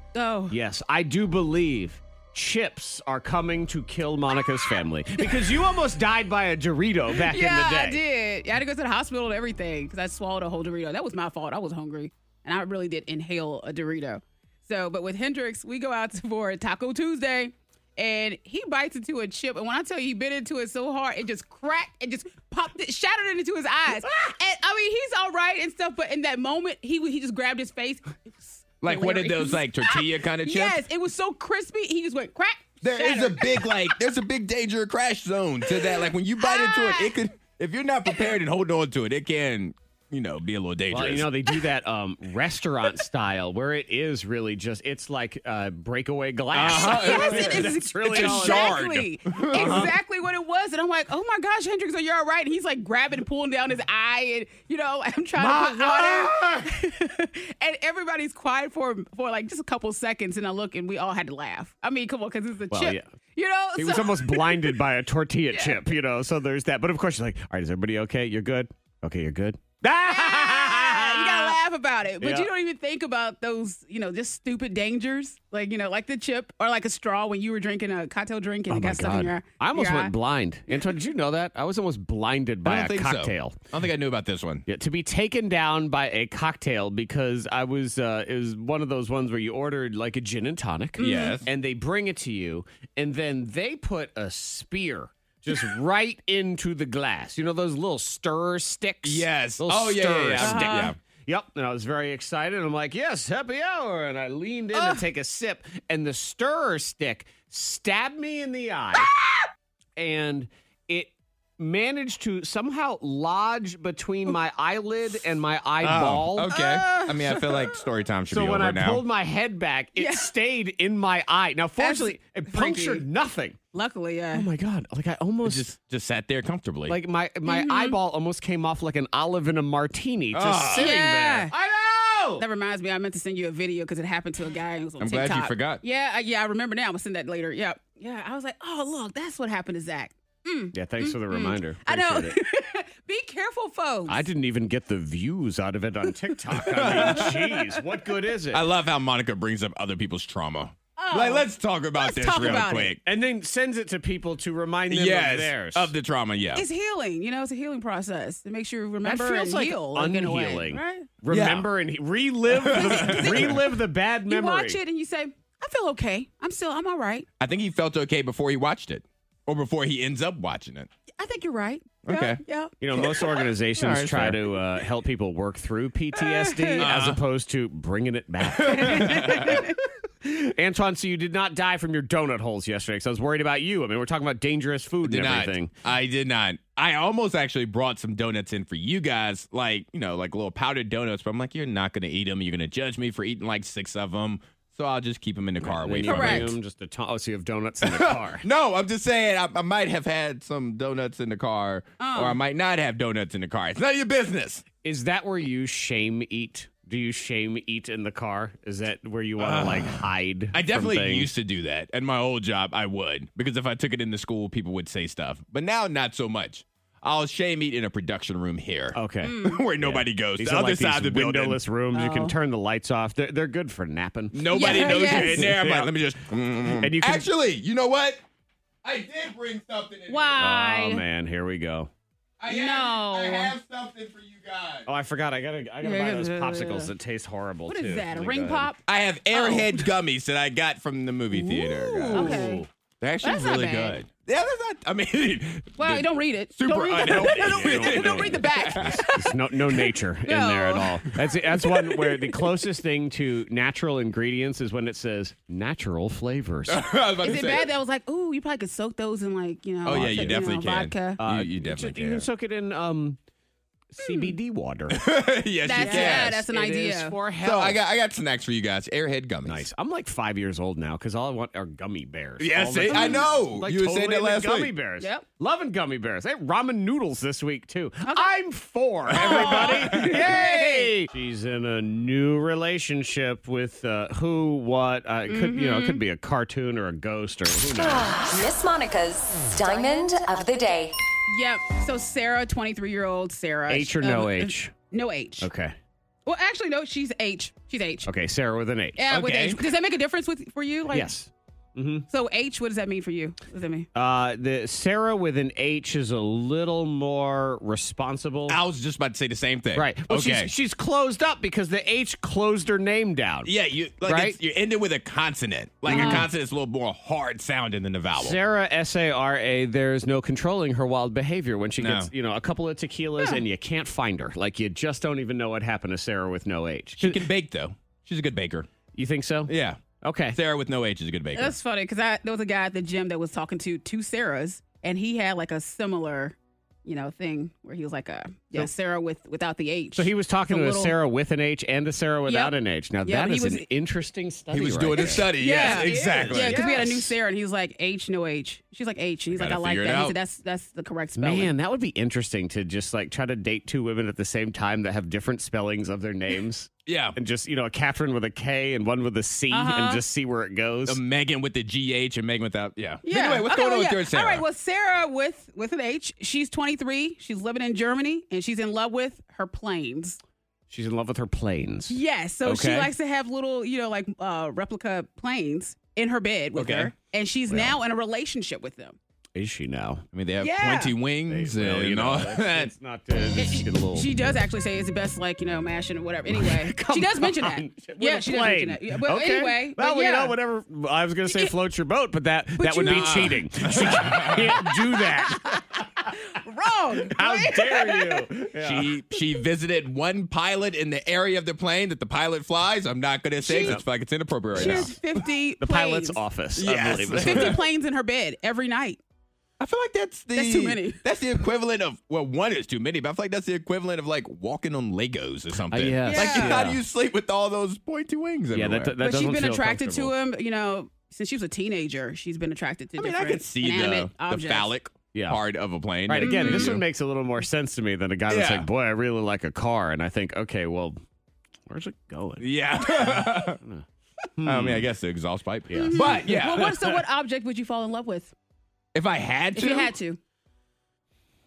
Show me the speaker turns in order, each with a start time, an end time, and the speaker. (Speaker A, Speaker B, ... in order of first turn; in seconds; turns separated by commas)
Speaker A: 0.1-0.6, Speaker B: 0.5-8.0, Speaker A: 7.2-33.7, Speaker C: 28.8-30.8, Speaker C: 32.8-41.3, Speaker A: 36.4-37.1, Speaker B: 40.9-48.8, Speaker C: 46.5-49.9, Speaker A: 46.7-64.8, Speaker B: 49.4-50.0, Speaker B: 55.4-56.7, Speaker B: 62.7-63.1, Speaker B: 63.8-71.6, Speaker A: 65.5-65.8, Speaker A: 70.0-80.1, Speaker B: 72.2-72.5, Speaker B: 78.7-83.7, Speaker C: 82.7-84.7, Speaker B: 84.7-109.1, Speaker A: 91.0-91.4, Speaker C: 91.0-91.5, Speaker C: 99.0-101.0, Speaker A: 100.4-100.9, Speaker A: 104.8-105.0, Speaker B: 110.0-116.5, Speaker C: 115.8-119.0, Speaker A: 116.5-117.2, Speaker B: 118.3-123.6, Speaker A: 120.0-120.3, Speaker A: 121.8-123.0, Speaker A: 123.7-124.5, Speaker B: 124.3-125.7, Speaker C: 125.4-127.0, Speaker B: 126.9-132.4, Speaker A: 127.5-128.0, Speaker C: 130.3-130.9, Speaker A: 130.8-131.5, Speaker A: 132.4-144.2, Speaker C: 135.0-135.8, Speaker B: 140.7-142.4, Speaker B: 144.1-148.7, Speaker C: 146.6-147.5, Speaker A: 146.8-147.8, Speaker C: 148.5-153.0, Speaker A: 151.0-153.0, Speaker B: 153.0-155.9, Speaker C: 154.9-156.7, Speaker A: 156.6-161.1, Speaker B: 159.0-164.8, Speaker C: 161.3-161.7, Speaker C: 162.5-163.6, Speaker A: 162.7-163.5, Speaker A: 164.3-167.3, Speaker C: 167.4-170.9, Speaker A: 171.2-172.7, Speaker C: 172.1-172.4, Speaker B: 172.8-179.7, Speaker C: 173.0-174.6, Speaker A: 176.2-176.8, Speaker C: 176.8-177.2, Speaker C: 178.6-179.6, Speaker A: 178.7-179.8, Speaker B: 180.2-185.7, Speaker C: 185.0-196.5, Speaker B: 195.6-198.4, Speaker A: 196.1-196.5, Speaker C: 197.8-204.7, Speaker A: 202.0-202.4, Speaker B: 204.8-211.3, Speaker C: 209.4-221.6, Speaker B: 218.9-225.9, Speaker A: 219.2-219.6, Speaker A: 221.9-222.3, Speaker C: 224.3-228.2, Speaker A: 224.5-225.5, Speaker B: 226.7-227.3, Speaker C: 228.8-230.4, Speaker A: 230.1-231.1, Speaker B: 230.4-231.9, Speaker C: 232.4-234.9, Speaker A: 232.5-233.5, Speaker B: 234.9-238.7, Speaker A: 235.8-236.9, Speaker A: 237.7-239.9, Speaker C: 238.9-249.0, Speaker B: 241.4-242.7, Speaker A: 241.5-242.7, Speaker A: 243.2-244.0, Speaker A: 245.8-252.4, Speaker B: 247.0-256.9, Speaker C: 256.7-257.7, Speaker A: 257.2-261.2, Speaker C: 259.9-262.3, Speaker B: 259.9-260.3, Speaker B: 261.2-263.2, Speaker B: 263.9-265.2, Speaker A: 264.0-264.3, Speaker C: 264.9-266.4, Speaker A: 265.6-267.2, Speaker B: 265.7-267.8, Speaker C: 267.4-269.7, Speaker B: 269.4-288.4, Speaker C: 272.4-274.7, Speaker A: 272.9-273.3, Speaker A: 278.0-278.4, Speaker C: 279.1-280.3, Speaker A: 279.1-280.9, Speaker A: 285.3-286.0, Speaker D: 287.8-290.9, Speaker A: 289.7-290.0, Speaker A: 291.3-295.5, Speaker B: 293.7-294.8, Speaker B: 295.4-295.8, Speaker A: 296.3-298.1, Speaker B: 298.0-299.1, Speaker A: 299.0-301.1, Speaker C: 299.1-299.6, Speaker B: 300.9-302.1, Speaker A: 302.1-303.9, Speaker B: 303.9-308.6, Speaker C: 308.5-310.5, Speaker B: 309.7-313.5, Speaker C: 313.4-318.4, Speaker B: 314.0-314.4, Speaker B: 315.9-316.3, Speaker A: 315.9-316.3, Speaker B: 318.1-327.2, Speaker C: 321.8-322.1, Speaker C: 327.0-328.7, Speaker B: 328.9-330.4, Speaker C: 329.5-329.8, Speaker C: 330.3-331.6, Speaker A: 331.3-341.0, Speaker B: 339.9-347.0, Speaker A: 342.3-343.7, Speaker C: 344.5-347.1, Speaker A: 345.0-351.5, Speaker C: 349.3-350.2, Speaker B: 351.2-361.0, Speaker C: 356.9-357.2, Speaker A: 359.5-360.0, Speaker C: 360.9-364.4, Speaker A: 363.1-370.2, Speaker B: 370.7-372.9, Speaker A: 371.9-379.0, Speaker C: 376.6-376.9, Speaker B: 377.5-377.8, Speaker B: 379.4-380.0, Speaker C: 380.1-382.7, Speaker A: 380.4-380.9, Speaker B: 381.3-384.4, Speaker A: 383.4-390.4, Speaker B: 386.3-395.8, Speaker A: 391.3-391.5, Speaker A: 392.6-393.3, Speaker C: 392.8-394.6, Speaker A: 393.9-398.3, Speaker B: 397.0-398.9, Speaker C: 398.6-405.0, Speaker A: 403.4-403.8, Speaker B: 404.5-405.0, Speaker A: 404.6-406.2, Speaker B: 405.6-407.6, Speaker C: 406.6-407.6, Speaker A: 407.2-409.0, Speaker C: 409.6-418.9, Speaker A: 410.4-411.0, Speaker B: 415.7-416.8, Speaker A: 416.1-416.6, Speaker B: 418.5-420.1, Speaker A: 419.0-424.7, Speaker C: 423.0-426.8, Speaker B: 425.1-425.4, Speaker B: 426.1-431.0, Speaker A: 426.2-426.8, Speaker C: 428.3-428.7, Speaker B: 431.7-434.9, Speaker C: 432.4-433.6, Speaker C: 434.4-437.0, Speaker B: 435.7-436.4, Speaker A: 435.8-438.3, Speaker C: 438.9-439.9, Speaker A: 439.6-440.2